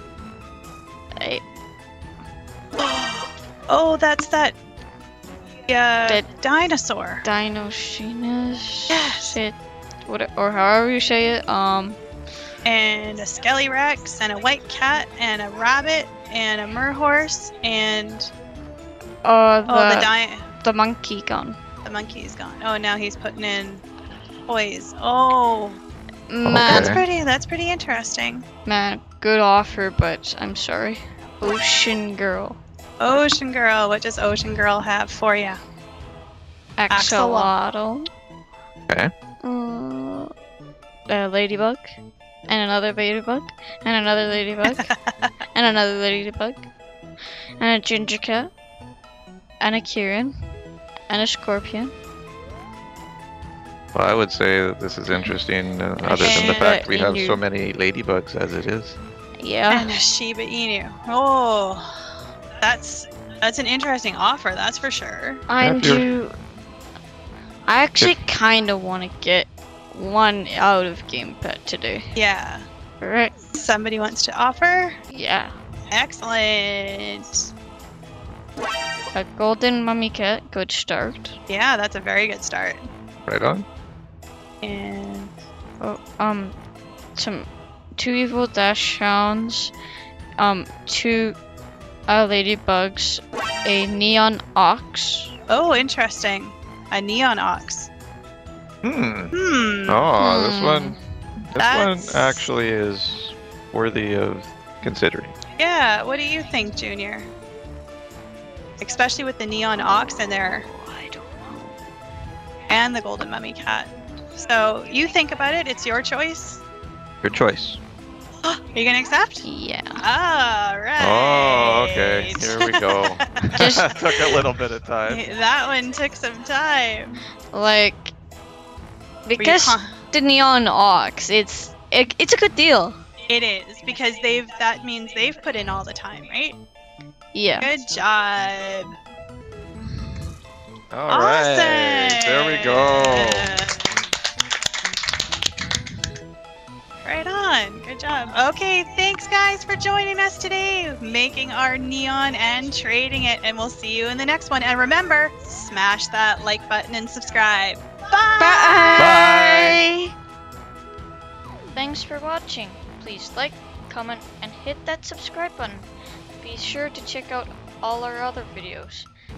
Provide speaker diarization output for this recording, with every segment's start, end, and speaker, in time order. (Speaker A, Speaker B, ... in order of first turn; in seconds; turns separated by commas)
Speaker A: 2.8-4.5, Speaker A: 5.7-7.2, Speaker B: 7.2-12.0, Speaker A: 8.9-9.4, Speaker A: 12.6-18.3, Speaker B: 19.2-20.1, Speaker A: 19.7-20.5, Speaker B: 20.6-21.6, Speaker A: 21.8-23.8, Speaker A: 24.5-25.8, Speaker B: 26.3-27.0, Speaker C: 26.4-27.0, Speaker A: 26.6-28.4, Speaker B: 28.6-33.2, Speaker A: 33.0-35.6, Speaker B: 36.8-38.0, Speaker A: 36.9-37.5, Speaker B: 39.4-40.3, Speaker B: 41.1-42.0, Speaker B: 42.5-44.9, Speaker A: 44.7-45.3, Speaker B: 45.5-46.7, Speaker B: 47.6-48.5, Speaker B: 49.6-50.3, Speaker B: 51.1-51.9, Speaker C: 53.9-59.0, Speaker B: 56.0-57.4, Speaker A: 56.2-56.8, Speaker B: 59.4-59.9, Speaker A: 59.7-61.9, Speaker A: 62.6-65.4, Speaker B: 65.5-66.3, Speaker C: 65.6-66.1, Speaker B: 67.7-72.0, Speaker A: 72.2-72.6, Speaker B: 73.0-73.3, Speaker A: 73.5-74.9, Speaker B: 75.1-75.5, Speaker A: 75.9-77.5, Speaker B: 79.1-81.3, Speaker A: 81.5-82.8, Speaker C: 83.3-83.7, Speaker A: 84.6-85.3, Speaker B: 85.8-86.5, Speaker B: 87.2-89.7, Speaker B: 90.4-91.4, Speaker B: 92.1-95.3, Speaker A: 95.5-97.9, Speaker C: 98.8-99.3, Speaker A: 99.3-100.0, Speaker C: 99.9-105.3, Speaker B: 100.2-101.0, Speaker A: 101.6-102.5, Speaker A: 105.6-107.3, Speaker A: 108.8-110.7, Speaker B: 110.6-111.7, Speaker A: 112.7-116.6, Speaker C: 117.2-117.8, Speaker A: 118.4-119.5, Speaker B: 119.4-120.0, Speaker A: 120.0-122.8, Speaker C: 121.0-125.2, Speaker B: 123.6-123.9, Speaker A: 125.0-127.2, Speaker B: 127.5-128.1, Speaker B: 129.2-133.0, Speaker A: 129.4-129.9, Speaker A: 133.3-136.6, Speaker B: 137.3-137.7, Speaker A: 137.6-138.9, Speaker C: 140.9-143.5, Speaker A: 141.1-143.9, Speaker A: 147.0-159.1, Speaker B: 158.4-160.1, Speaker C: 159.0-159.8, Speaker B: 161.7-165.9, Speaker B: 166.4-169.1